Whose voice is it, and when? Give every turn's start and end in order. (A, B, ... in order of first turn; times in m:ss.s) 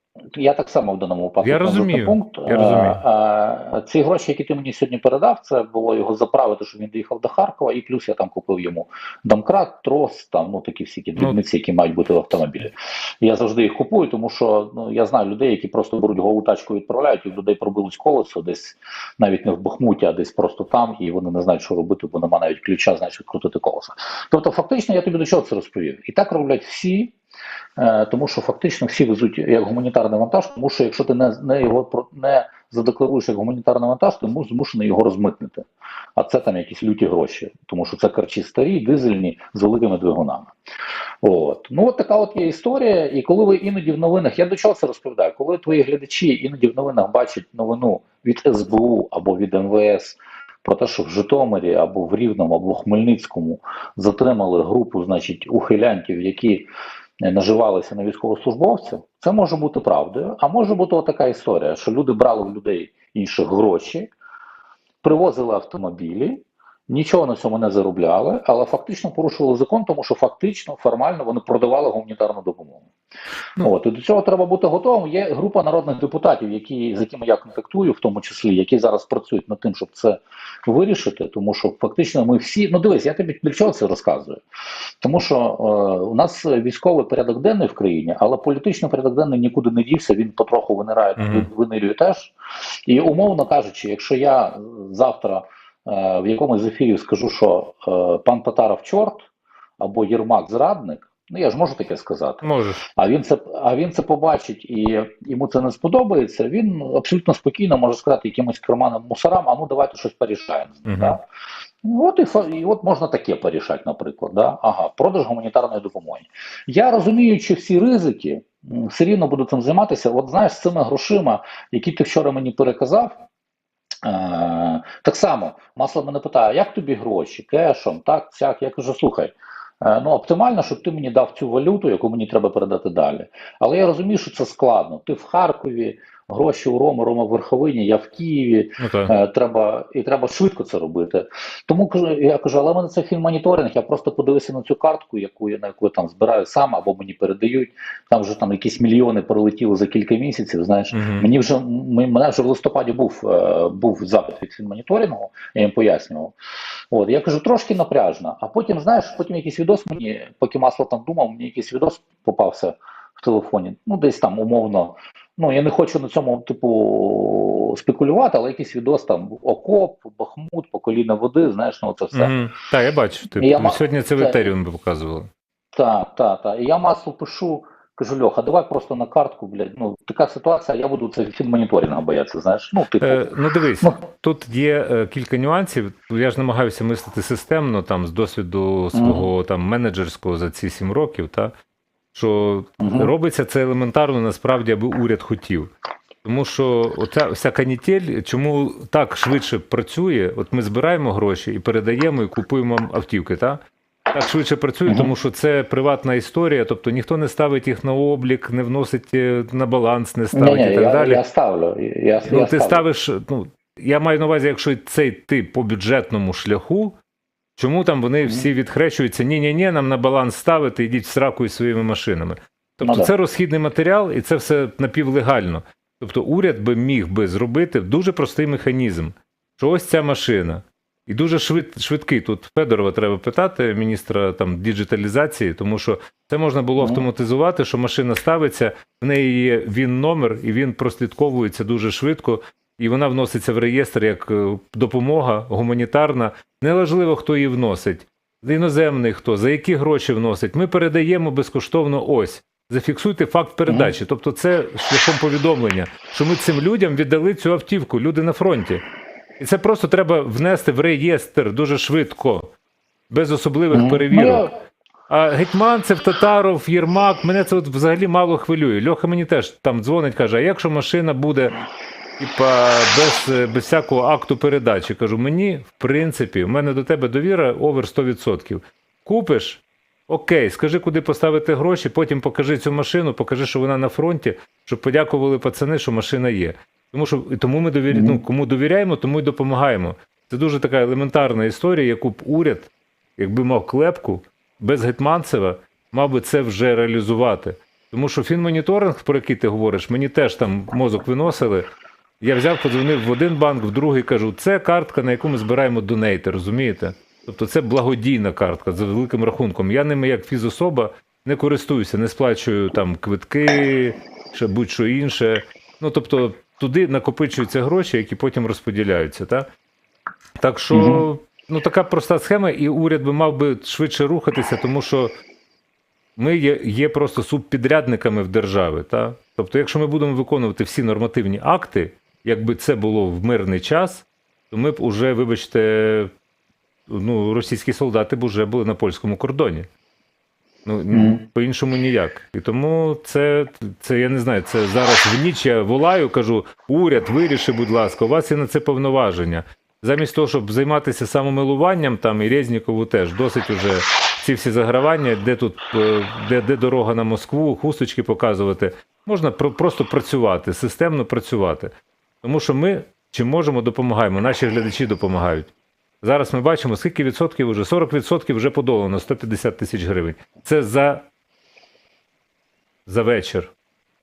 0:00.3-0:27.1 A
0:01.4-0:03.0 B
0:27.8-0:40.5 A
0:41.2-0:56.7 A
0:57.2-1:04.1 A
1:05.0-1:12.9 A
1:13.6-1:24.4 A
1:25.0-1:39.3 A
1:31.2-1:31.5 B
1:39.8-1:42.4 A
1:42.4-1:42.8 B
1:43.0-1:51.2 A
1:50.9-1:51.2 B
1:51.8-2:03.2 A
2:04.0-2:36.4 A
2:18.8-2:19.1 B
2:30.9-2:31.3 B
2:36.9-2:52.3 A
2:52.1-2:55.3 B
2:53.4-2:54.5 A
2:55.7-3:04.0 A
3:03.0-3:11.5 B
3:08.9-3:09.3 A
3:12.1-3:15.7 B
3:12.8-3:13.1 A
3:16.2-3:23.6 B
3:24.1-3:31.2 B
3:30.3-3:32.8 A
3:32.2-3:37.0 B
3:37.6-4:18.8 B
3:42.8-3:43.1 A
3:56.8-3:57.0 A
4:13.7-4:13.9 A
4:19.4-4:22.5 B
4:23.1-4:24.5 B
4:23.7-4:24.5 A
4:25.1-4:31.5 B
4:32.2-5:01.7 B
4:47.9-4:48.2 A
5:02.2-5:19.5 B
5:20.4-5:25.1 B
5:20.7-5:21.0 A
5:26.2-5:36.1 B
5:36.9-5:39.7 B
5:40.6-6:11.1 B
5:40.9-5:41.2 A
6:12.9-6:13.5 B